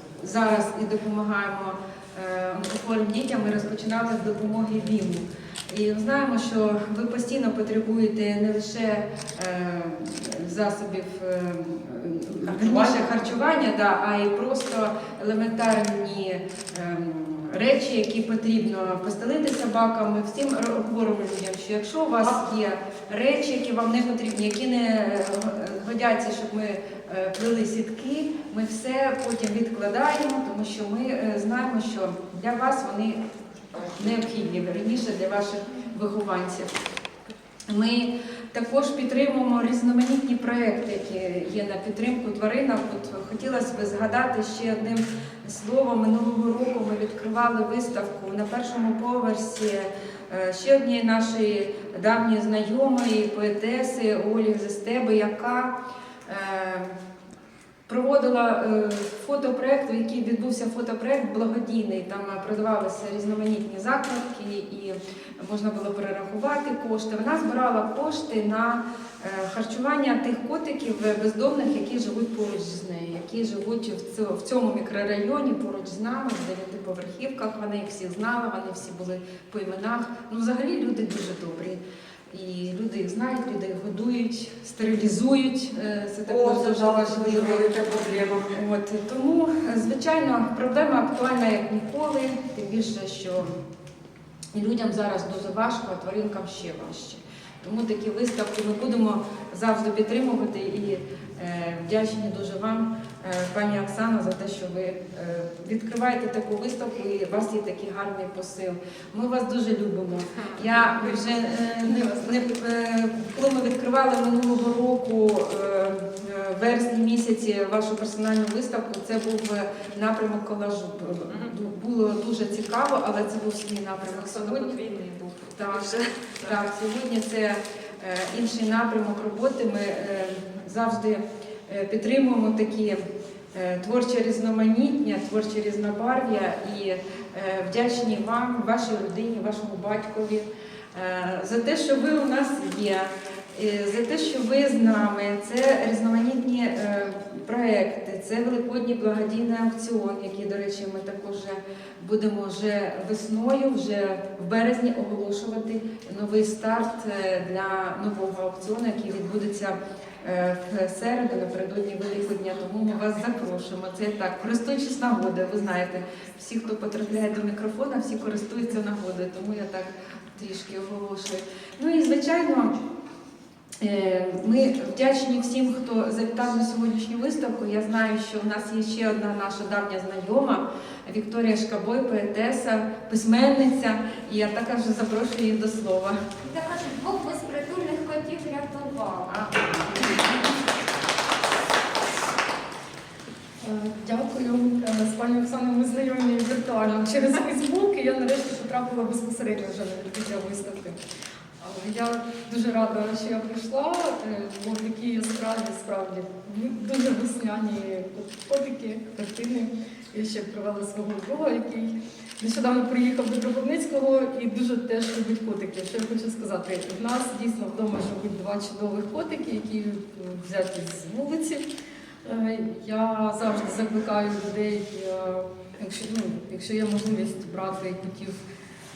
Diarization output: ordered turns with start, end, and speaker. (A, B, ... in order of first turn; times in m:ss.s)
0:00.2-0:33.2 A
0:12.6-0:13.0 B
0:33.8-0:36.7 A
0:37.7-0:55.7 A
0:56.3-0:56.9 A
0:57.9-1:27.8 A
1:26.4-1:28.3 B
1:28.5-1:33.5 A
1:34.5-2:04.8 A
1:50.4-1:52.4 C
2:01.3-2:01.5 C
2:04.1-2:06.6 C
2:05.6-2:05.8 A
2:06.4-2:13.0 A
2:13.5-2:52.8 A
2:53.8-3:06.2 A
3:06.4-3:09.3 D
3:09.3-3:10.3 A
3:13.6-3:21.0 E
3:21.6-3:41.6 E
3:42.2-3:48.4 E